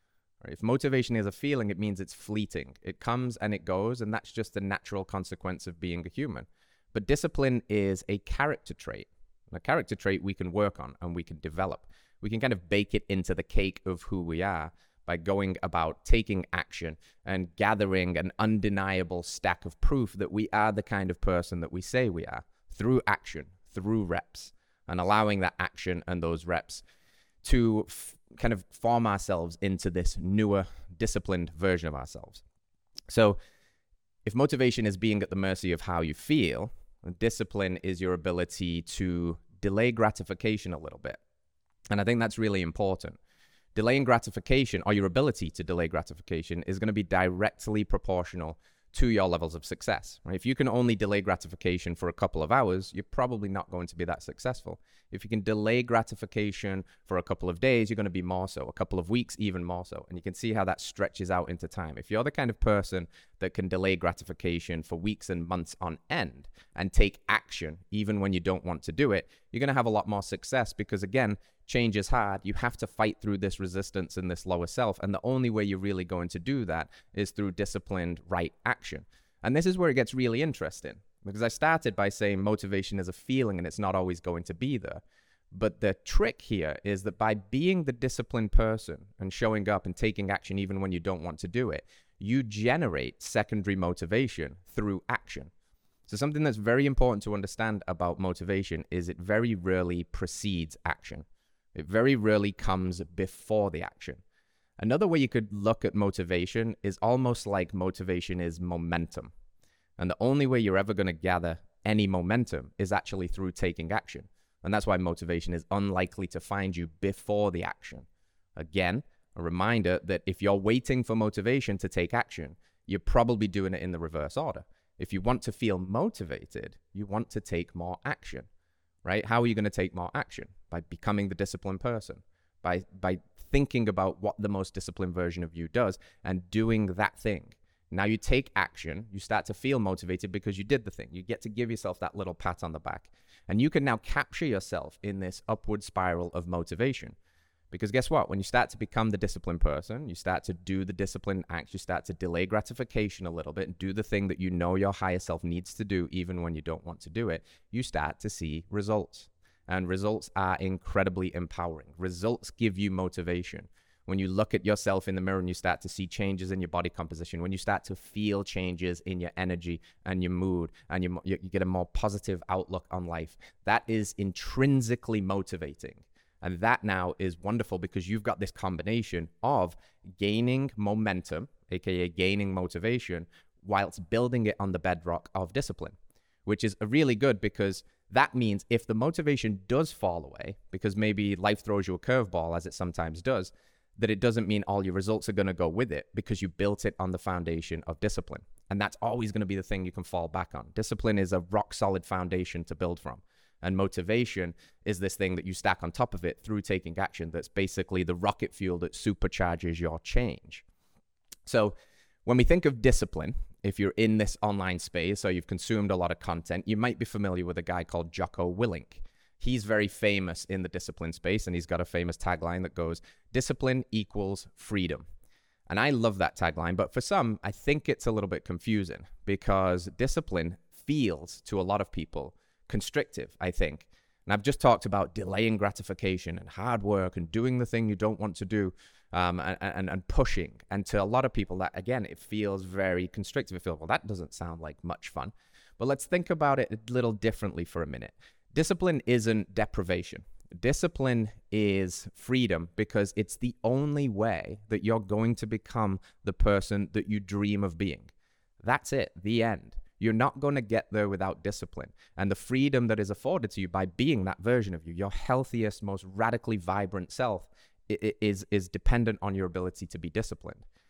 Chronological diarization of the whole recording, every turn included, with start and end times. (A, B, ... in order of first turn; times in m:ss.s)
0:00.4-0:26.8 A
0:27.4-0:32.4 A
0:33.1-0:33.4 A
0:34.2-0:41.2 A
0:41.9-0:43.2 A
0:43.8-1:25.0 A
1:25.5-1:35.5 A
1:36.1-1:44.2 A
1:44.8-1:49.3 A
1:50.0-2:08.5 A
2:09.0-2:27.2 A
2:27.7-3:30.6 A
3:31.5-3:31.8 A
3:32.3-3:45.0 A
3:45.7-4:18.1 A
4:18.6-4:30.6 A